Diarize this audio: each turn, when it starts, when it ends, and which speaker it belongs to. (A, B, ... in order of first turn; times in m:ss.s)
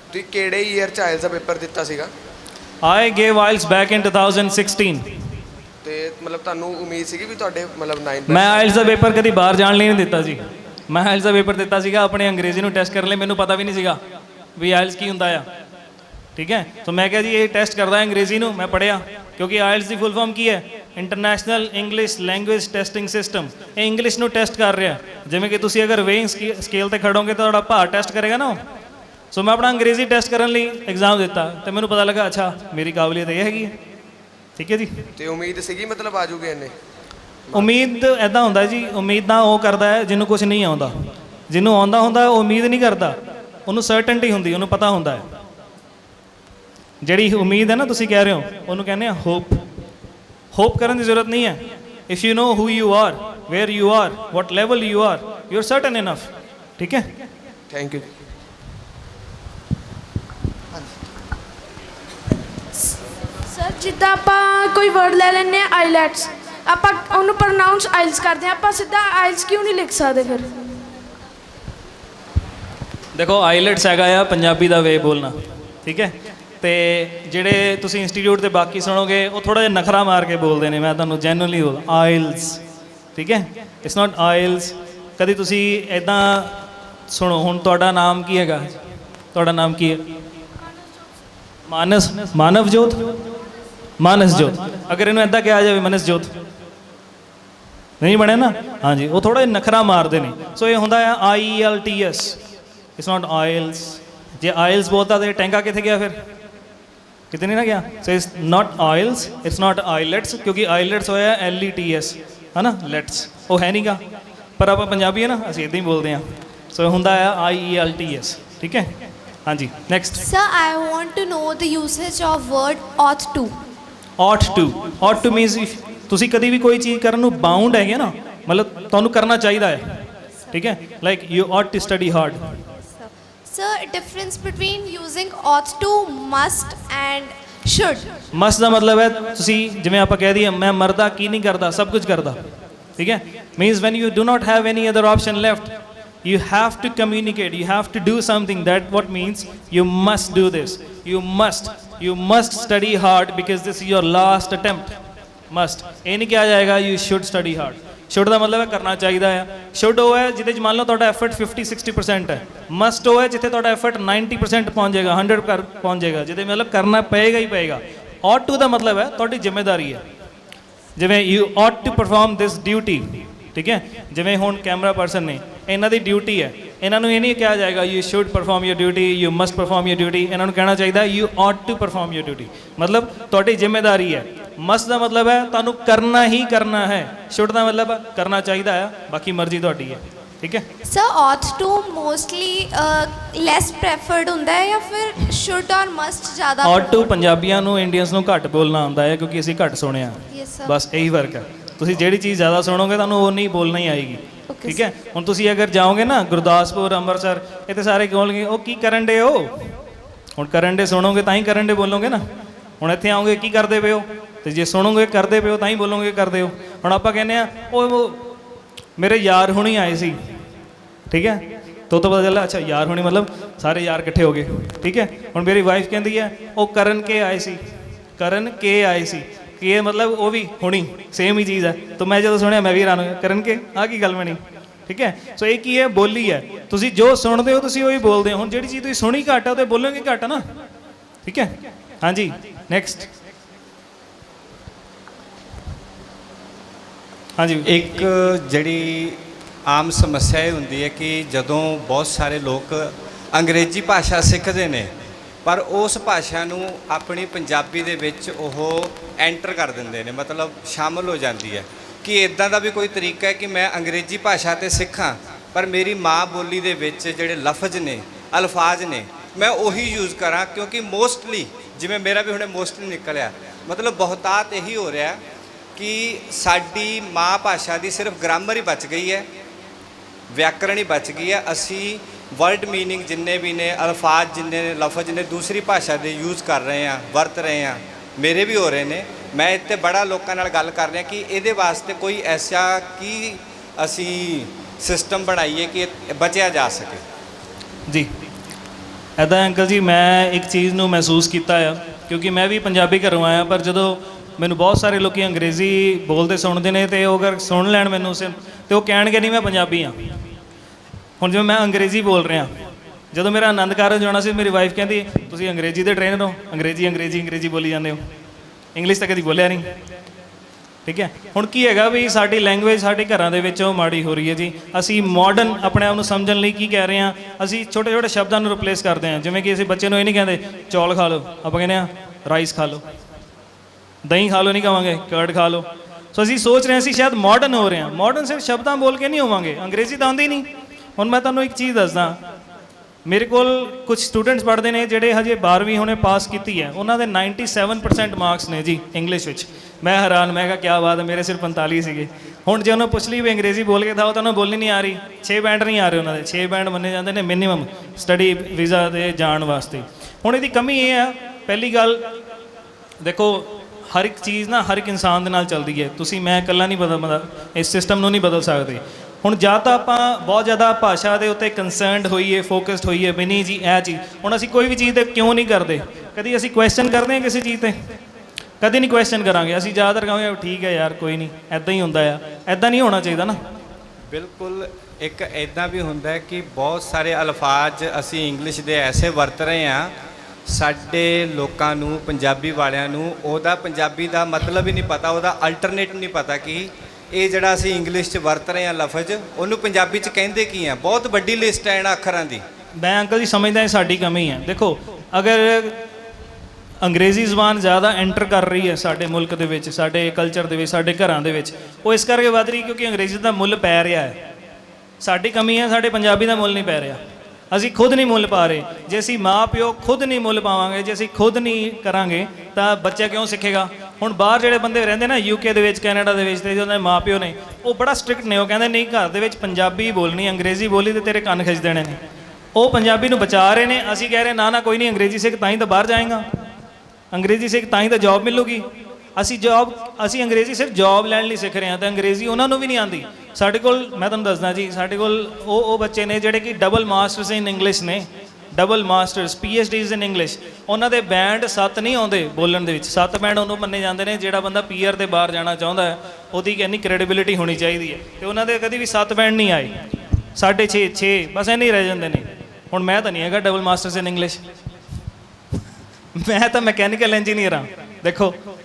0:00.1-0:02.1 A
0:02.8-0:05.1 B
0:05.8-0:08.5 A
0:08.3-0:14.0 B
0:14.6-0:15.5 B
0:16.4-0:28.6 B
0:29.3-0:33.7 B
0:34.6-0:35.1 B
0:35.2-0:36.7 A
0:37.5-0:41.0 B
0:41.5-0:43.2 B
0:43.7-0:45.3 B
0:47.0-0:49.6 B
0:50.5-0:57.1 B
0:57.7-0:58.1 A
1:03.5-1:10.7 C
1:13.2-1:22.6 B
1:23.2-1:28.8 B
1:29.3-1:30.0 B
1:31.7-1:33.2 B
1:34.0-1:36.3 B
1:38.0-1:42.4 B
1:43.0-1:46.2 B
1:47.3-1:54.0 B
1:54.6-1:58.9 B
1:59.5-2:00.3 B
2:00.2-2:03.6 D
2:04.2-2:09.8 B
2:10.5-2:12.5 B
2:13.0-2:18.1 D
2:18.3-2:22.4 B
2:23.0-2:25.7 B
2:26.2-2:35.0 B
2:35.5-2:50.0 B
2:51.0-3:10.6 B
3:10.8-3:17.1 D
3:16.6-3:29.6 B
3:20.3-3:20.7 D
3:24.5-3:24.8 D
3:30.4-3:32.2 B
3:32.8-3:38.3 B
3:39.0-3:40.2 B
3:41.1-3:47.6 B
3:48.2-4:00.4 B
4:01.2-4:03.1 B
4:07.4-4:07.7 B
4:07.6-4:14.9 E
4:15.4-4:35.2 E
4:35.8-4:39.3 E
4:40.3-4:57.0 E
4:59.2-5:10.0 B
5:11.2-5:12.5 B
5:13.1-5:18.0 B
5:18.8-5:19.7 B
5:20.9-5:32.8 B
5:34.0-5:42.2 B
5:43.1-6:02.1 B
6:03.0-6:17.8 B
6:18.6-6:23.4 B
6:24.1-6:29.9 E
6:30.5-6:42.4 E
6:42.8-6:45.8 B
6:46.8-6:54.2 B
6:55.0-6:57.0 B
6:57.5-7:12.0 B
7:12.6-7:16.3 B
7:17.1-7:18.6 B
7:19.2-7:39.7 B
7:40.4-7:44.4 B
7:46.1-7:48.4 B